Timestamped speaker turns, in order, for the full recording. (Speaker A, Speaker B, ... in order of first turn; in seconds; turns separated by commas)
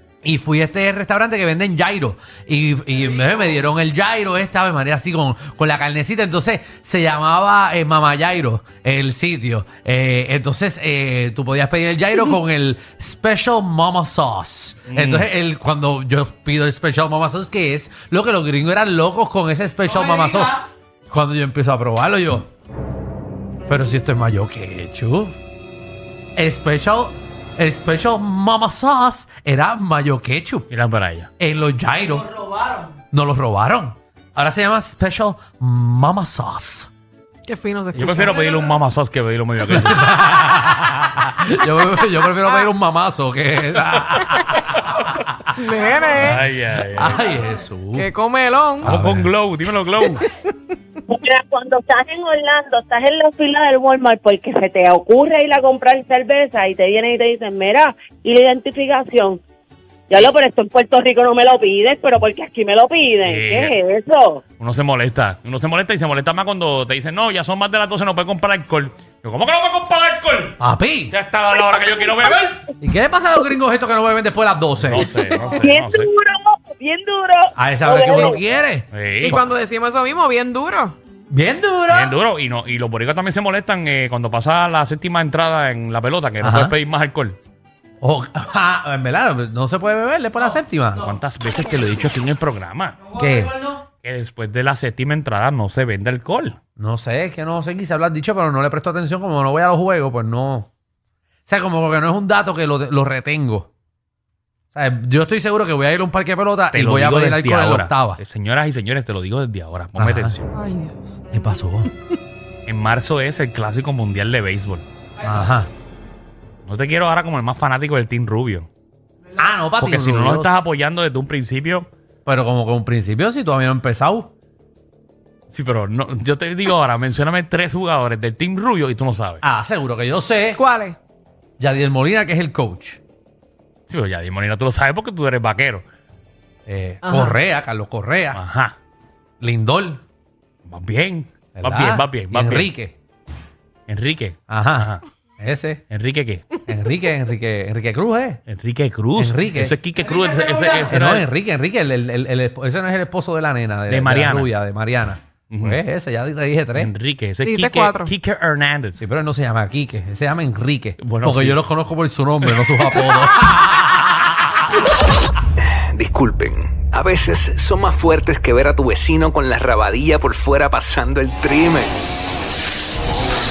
Speaker A: 0.2-22.5, Speaker B: 14.9-15.3, Speaker A: 23.7-25.3, Speaker A: 26.3-30.7, Speaker B: 30.7-31.3, Speaker A: 31.4-32.3, Speaker A: 33.1-36.9, Speaker C: 37.5-38.6, Speaker B: 37.9-40.2, Speaker A: 39.7-45.4, Speaker C: 45.5-46.4, Speaker B: 46.2-47.2, Speaker A: 46.2-48.1, Speaker C: 48.0-48.9, Speaker A: 48.8-49.3, Speaker B: 48.8-50.2, Speaker C: 50.2-50.5, Speaker D: 51.1-59.4, Speaker D: 60.1-64.4, Speaker B: 63.2-63.8, Speaker B: 64.6-70.6, Speaker A: 70.6-71.1, Speaker B: 71.1-72.6, Speaker A: 72.8-75.1, Speaker B: 74.8-76.1, Speaker D: 75.2-78.4, Speaker A: 77.5-79.4, Speaker B: 78.9-79.4, Speaker C: 79.2-80.9, Speaker A: 81.3-82.2, Speaker B: 81.9-87.4, Speaker A: 86.4-86.7, Speaker A: 88.0-91.1, Speaker B: 91.0-93.0, Speaker A: 93.1-93.6, Speaker B: 94.0-96.6, Speaker A: 96.8-100.7, Speaker A: 101.5-103.7, Speaker A: 104.7-108.2, Speaker B: 106.7-110.5, Speaker A: 110.0-110.4, Speaker C: 110.5-110.9, Speaker A: 111.3-111.9, Speaker B: 112.7-114.8, Speaker A: 115.2-115.7, Speaker B: 116.7-118.7, Speaker A: 119.4-120.5, Speaker B: 119.8-121.9, Speaker A: 122.2-124.3, Speaker B: 125.5-129.4, Speaker A: 129.4-130.6, Speaker C: 130.5-130.9, Speaker A: 131.6-133.0, Speaker B: 133.9-135.8, Speaker A: 136.7-138.4, Speaker C: 137.0-137.4, Speaker B: 138.3-138.8, Speaker A: 139.4-140.0, Speaker B: 140.7-142.7, Speaker A: 141.6-142.9, Speaker B: 143.9-145.0, Speaker A: 144.5-145.8, Speaker B: 145.9-146.4, Speaker A: 146.7-148.4, Speaker B: 148.5-151.2, Speaker A: 149.2-149.8, Speaker A: 150.9-156.9, Speaker B: 153.9-154.5, Speaker B: 155.5-155.8, Speaker B: 156.8-159.0, Speaker C: 157.4-158.1, Speaker A: 159.0-164.4, Speaker B: 161.0-161.6, Speaker E: 165.9-172.0